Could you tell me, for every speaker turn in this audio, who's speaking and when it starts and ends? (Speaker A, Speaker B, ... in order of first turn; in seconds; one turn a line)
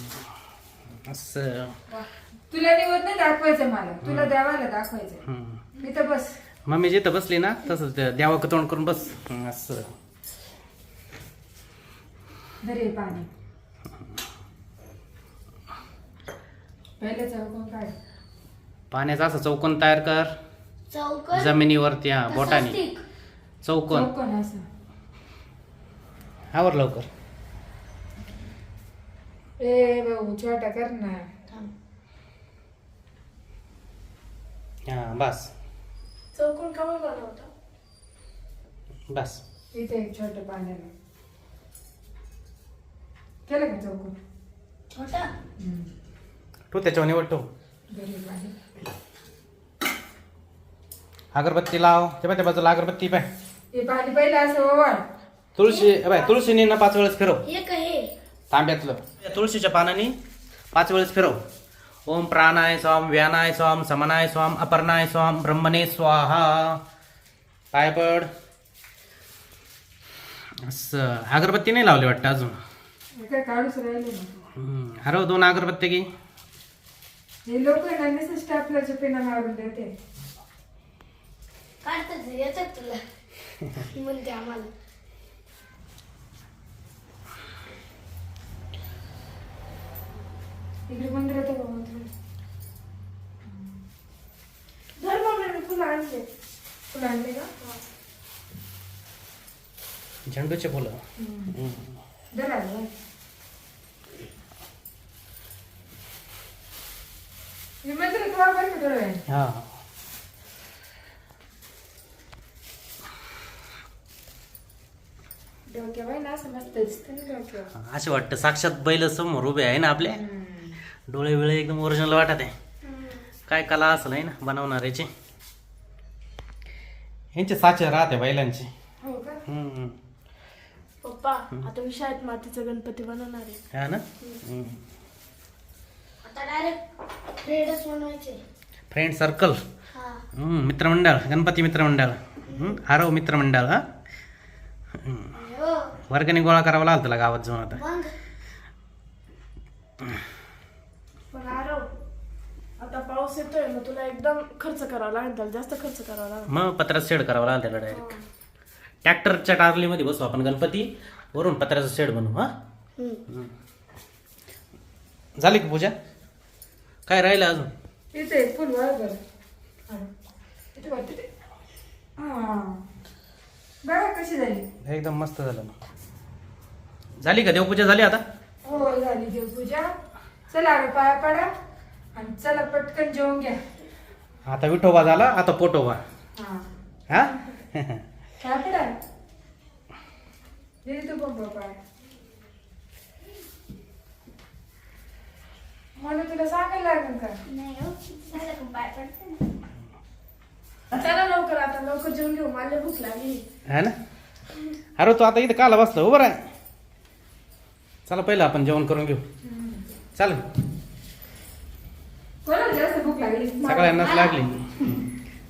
Speaker A: 1.1-1.8
Speaker B: 1.9-5.2
Speaker A: 4.0-4.3
Speaker A: 5.2-5.6
Speaker B: 5.8-6.3
Speaker A: 6.7-9.9
Speaker B: 12.6-13.3
Speaker B: 17.0-17.9
Speaker A: 18.9-20.3
Speaker C: 20.9-21.6
Speaker A: 21.3-22.8
Speaker C: 22.3-23.0
Speaker A: 23.6-24.1
Speaker B: 23.9-24.6
Speaker A: 26.5-27.1
Speaker B: 29.6-31.3
Speaker A: 34.9-35.5
Speaker D: 36.3-37.5
Speaker A: 39.1-39.4
Speaker B: 39.7-40.9
Speaker B: 43.5-44.1
Speaker C: 44.9-45.3
Speaker B: 45.6-45.9
Speaker A: 46.7-47.5
Speaker B: 47.9-48.5
Speaker A: 51.3-53.3
Speaker B: 53.7-55.0
Speaker A: 55.6-57.4
Speaker C: 55.6-56.5
Speaker C: 57.5-58.1
Speaker A: 58.5-60.1
Speaker A: 60.7-61.4
Speaker A: 62.1-66.8
Speaker A: 67.7-68.3
Speaker A: 70.7-72.5
Speaker B: 73.2-74.3
Speaker A: 74.6-76.1
Speaker B: 77.5-79.9
Speaker C: 81.8-83.0
Speaker C: 83.8-84.7
Speaker B: 90.9-92.1
Speaker D: 95.0-96.2
Speaker B: 96.9-97.5
Speaker A: 100.3-101.0
Speaker B: 101.2-101.5
Speaker A: 101.5-101.9
Speaker B: 102.3-102.9
Speaker B: 107.8-109.2
Speaker A: 109.3-109.7
Speaker B: 115.7-117.7
Speaker A: 117.7-120.2
Speaker B: 120.0-120.7
Speaker A: 121.1-122.5
Speaker D: 122.9-123.2
Speaker A: 123.5-125.1
Speaker A: 127.3-128.7
Speaker B: 129.0-129.4
Speaker A: 129.5-129.9
Speaker D: 131.0-133.6
Speaker A: 133.7-134.8
Speaker C: 136.2-136.8
Speaker C: 137.4-138.4
Speaker A: 138.9-139.6
Speaker C: 139.9-140.2
Speaker A: 140.4-143.8
Speaker C: 142.5-142.8
Speaker A: 145.0-145.3
Speaker C: 145.3-145.9
Speaker A: 146.1-147.8
Speaker C: 147.8-148.1
Speaker D: 151.3-151.9
Speaker D: 152.8-156.5
Speaker A: 156.5-158.1
Speaker A: 159.0-162.5
Speaker A: 165.4-165.9
Speaker A: 167.1-167.7
Speaker B: 168.1-169.2
Speaker B: 170.7-171.3
Speaker B: 172.2-172.8
Speaker B: 173.8-174.6
Speaker A: 174.8-175.7
Speaker A: 177.2-178.2
Speaker B: 178.6-179.9
Speaker B: 180.5-181.5
Speaker B: 182.1-183.6
Speaker A: 184.5-186.0
Speaker B: 186.4-186.7
Speaker A: 187.1-188.0
Speaker B: 188.4-188.9
Speaker B: 190.8-191.8
Speaker B: 196.0-197.4
Speaker C: 197.5-199.4
Speaker D: 200.9-203.4
Speaker A: 203.7-203.9
Speaker A: 205.0-206.4
Speaker A: 208.1-209.2
Speaker B: 209.4-209.8
Speaker A: 210.2-210.4
Speaker B: 212.4-213.8
Speaker D: 213.6-214.0
Speaker A: 213.6-215.1
Speaker C: 214.0-214.3